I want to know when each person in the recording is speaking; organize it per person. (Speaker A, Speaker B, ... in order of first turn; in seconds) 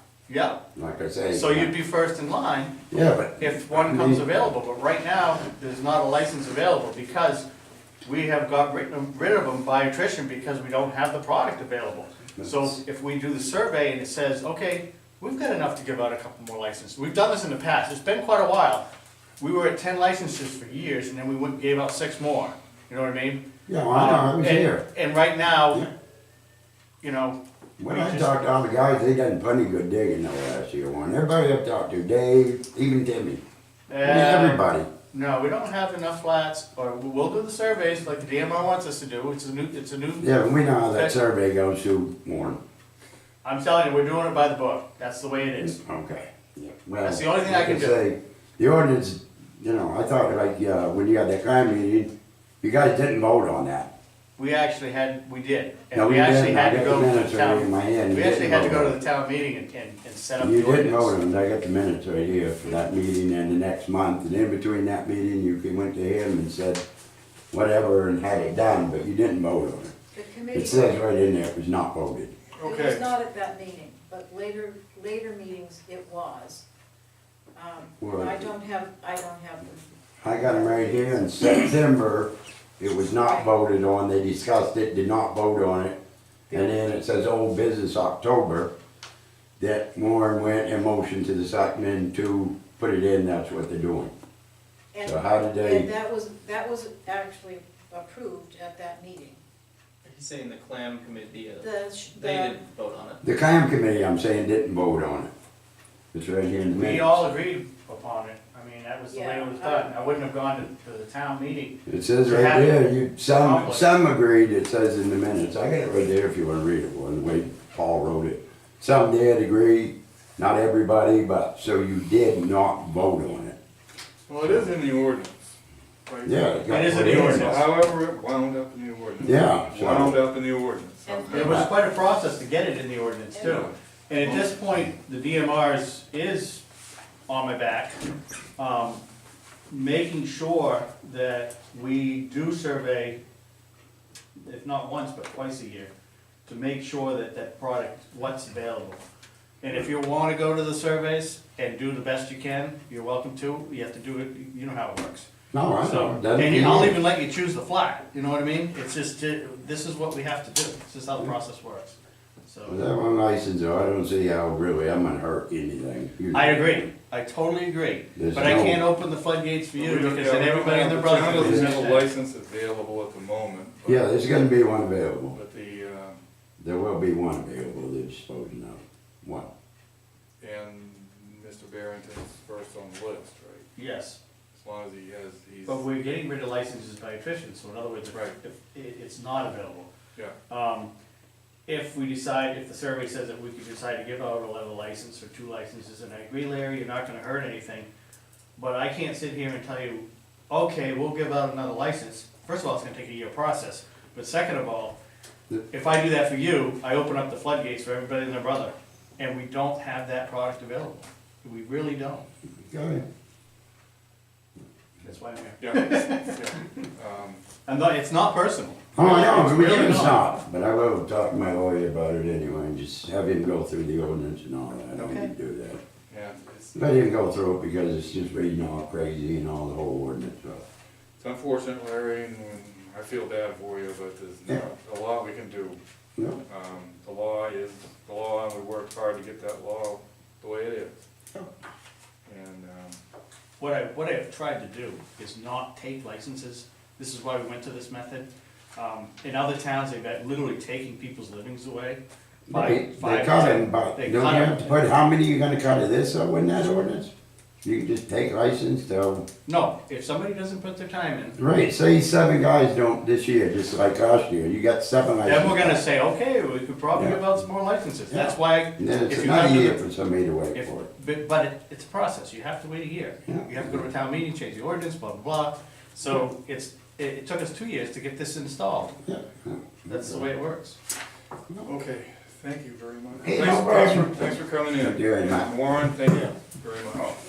Speaker A: 0.3-0.6, 1.3-2.8, 3.4-7.5, 8.0-18.8, 19.4-25.8, 27.0-28.4, 33.9-41.2, 43.4-45.8, 47.0-48.0, 54.4-61.2, 106.7-113.9, 126.7-127.6, 131.3-136.6, 137.3-138.0, 138.6-139.0, 139.7-143.2, 144.4-145.9, 146.4-149.0, 149.6-162.8, 166.3-172.1, 183.8-184.2, 185.7-189.9, 190.5-190.9, 191.7-197.9, 198.6-204.9, 205.7-212.3, 215.0-216.4, 217.7-220.2, 224.9-225.3, 243.6-254.8, 259.4-261.4, 265.2-269.8, 270.5-279.0, 279.9-280.8
Speaker B: 0.7-1.7, 2.9-4.2, 12.4-12.8, 23.7-24.8, 27.8-33.4, 34.0-34.9, 40.2-42.6, 45.6-53.9, 55.9-59.0, 60.4-66.8, 67.5-69.9, 70.5-72.3, 78.0-78.5, 80.2-86.0, 86.5-88.7, 89.6-94.1, 95.0-95.9, 103.2-105.3, 106.1-107.2, 111.9-123.6, 126.2-127.6, 129.2-130.2, 131.3-131.7, 155.5-157.0, 162.7-166.8, 168.2-168.8, 171.2-171.8, 173.8-175.4, 176.6-179.5, 212.7-213.0, 218.9-225.8, 226.7-230.6, 252.5-257.1, 257.6-259.3, 261.4-265.8, 266.9-267.2, 268.1-270.9, 273.3-273.8, 279.0-280.3, 283.2-285.5
Speaker C: 70.1-71.0, 72.6-76.6, 77.5-81.2, 83.1-83.5, 86.5-86.7, 94.9-99.4, 101.6-102.6, 109.1-109.9, 131.1-131.7, 133.3-133.6
Speaker D: 72.5-73.1, 124.3-125.5, 126.0-131.6, 133.4-134.5, 169.7-174.2, 175.3-176.2, 180.4-183.7, 184.5-185.8, 188.1-188.4, 215.6-217.4, 226.1-227.0, 231.2-235.8, 236.5-240.9, 242.2-243.0, 281.6-287.1
Speaker E: 100.0-103.2